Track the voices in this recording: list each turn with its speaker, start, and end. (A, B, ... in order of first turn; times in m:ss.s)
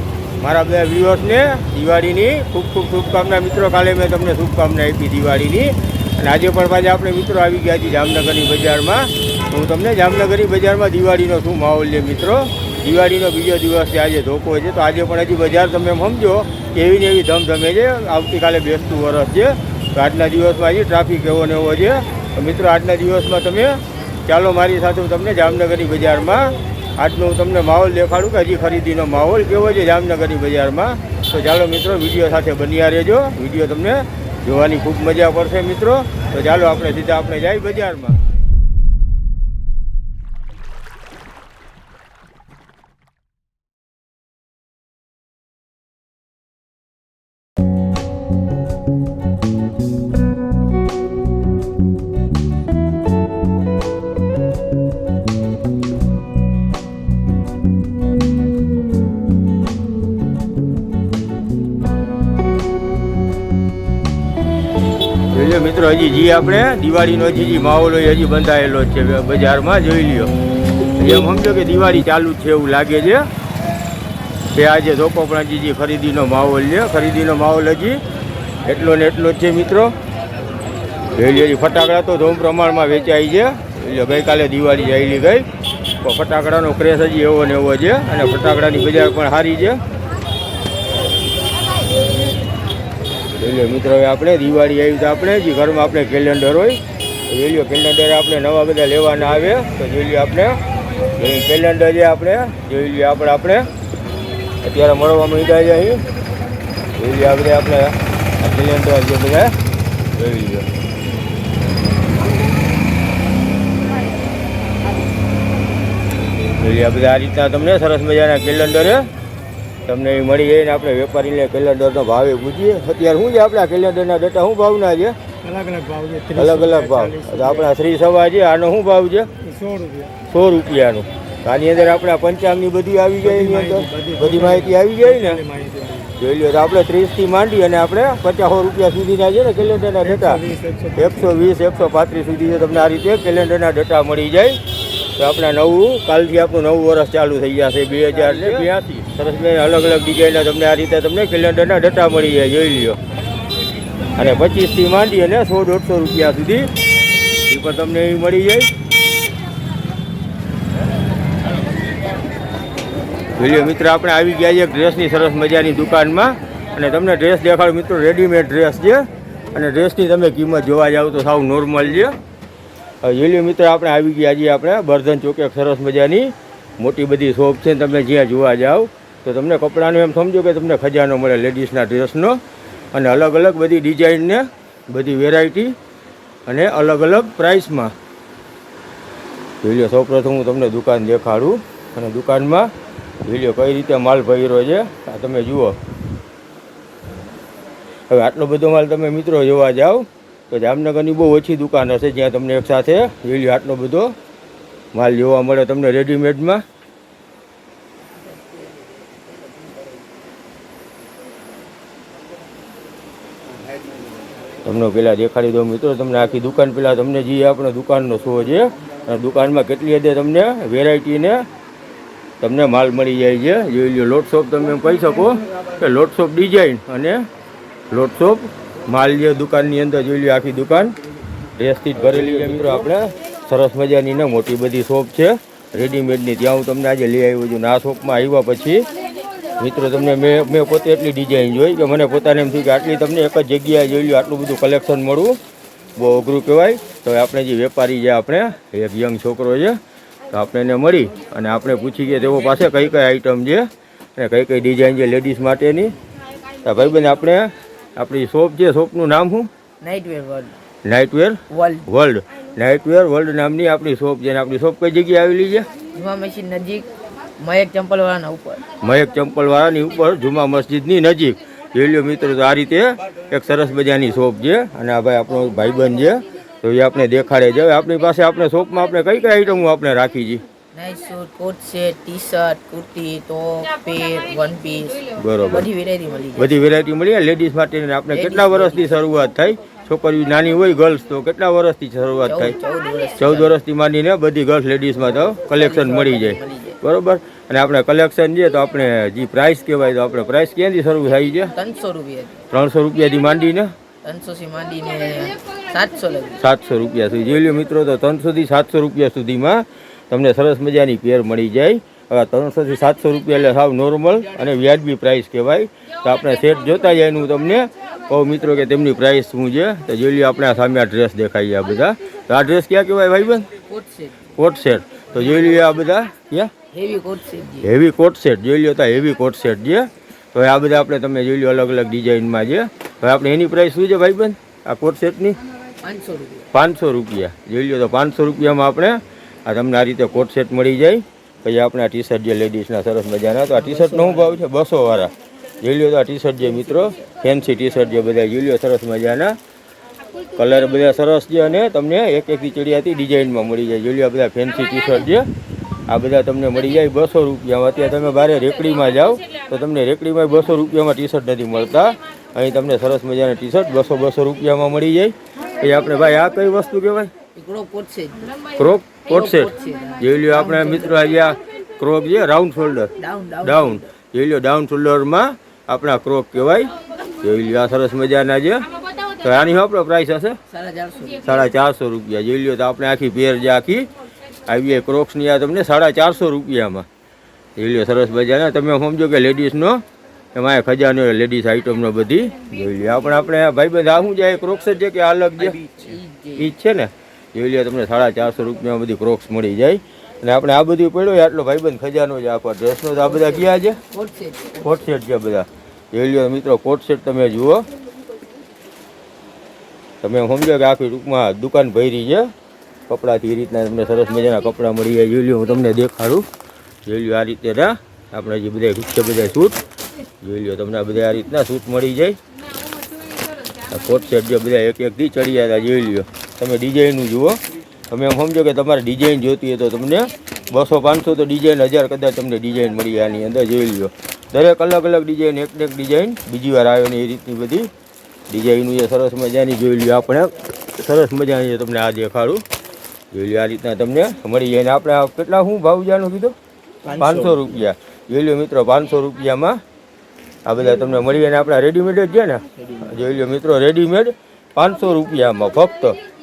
0:00.4-0:38.2 A
1:05.3-1:10.3 A
1:11.0-1:13.3 A
1:14.5-1:18.0 A
1:18.6-1:19.9 A
1:21.1-1:25.4 A
1:26.0-1:29.8 A
1:33.4-1:40.6 A
1:41.2-1:43.7 A
1:44.6-1:46.0 A
1:47.0-1:49.5 A
1:50.1-1:50.7 A
1:56.5-1:59.1 A
1:59.8-2:05.2 A
2:05.4-2:07.7 B
2:06.3-2:09.3 A
2:09.4-2:10.1 B
2:10.2-2:15.4 A
2:13.2-2:16.1 B
2:16.2-2:24.6 A
2:20.0-2:21.4 B
2:25.2-2:33.0 A
2:34.1-2:36.7 A
2:37.4-2:38.7 A
2:43.4-2:52.2 A
2:53.0-3:02.4 A
3:02.9-3:05.8 A
3:06.4-3:07.9 A
3:09.6-3:12.7 A
3:13.2-3:15.8 A
3:18.1-3:24.1 A
3:24.9-3:26.6 A
3:34.6-3:41.4 A
3:42.4-3:47.2 A
3:47.9-3:50.9 A
3:51.6-3:58.8 A
3:59.6-4:05.4 A
4:06.0-4:09.8 A
4:10.3-4:15.9 A
4:16.6-4:19.5 A
4:19.8-4:20.6 C
4:20.8-4:25.7 A
4:21.5-4:21.9 C
4:25.9-4:28.6 C
4:28.8-4:40.4 A
4:40.7-4:46.5 C
4:45.1-4:45.6 A
4:46.4-4:52.5 A
4:48.1-4:49.0 C
4:52.3-4:53.6 C
4:53.2-5:01.5 A
4:55.5-4:56.8 C
5:01.5-5:02.4 C
5:02.5-5:03.7 A
5:04.0-5:06.4 C
5:06.4-5:23.5 A
5:23.7-5:24.2 C
5:24.4-5:26.5 A
5:26.7-5:27.7 C
5:27.6-5:35.4 A
5:35.8-5:36.5 C
5:36.5-5:49.4 A
5:43.6-5:44.4 C
5:50.3-5:55.3 A
5:55.9-6:07.1 A
6:07.4-6:08.4 C
6:08.5-6:20.4 A
6:09.1-6:11.0 C
6:13.0-6:13.8 C
6:20.5-6:21.5 C
6:21.2-6:23.9 A
6:24.4-6:26.9 A
6:27.6-6:35.7 A
6:35.5-6:36.5 C
6:36.4-6:43.8 A
6:43.0-6:44.8 C
6:44.6-6:47.7 A
6:50.0-6:52.3 A
6:52.9-6:56.3 A
6:56.8-6:59.6 A
7:00.2-7:02.2 A
7:03.7-7:07.4 A
7:07.9-7:17.7 A
7:18.3-7:22.4 A
7:23.1-7:26.4 A
7:26.9-7:29.6 A
7:30.4-7:36.0 A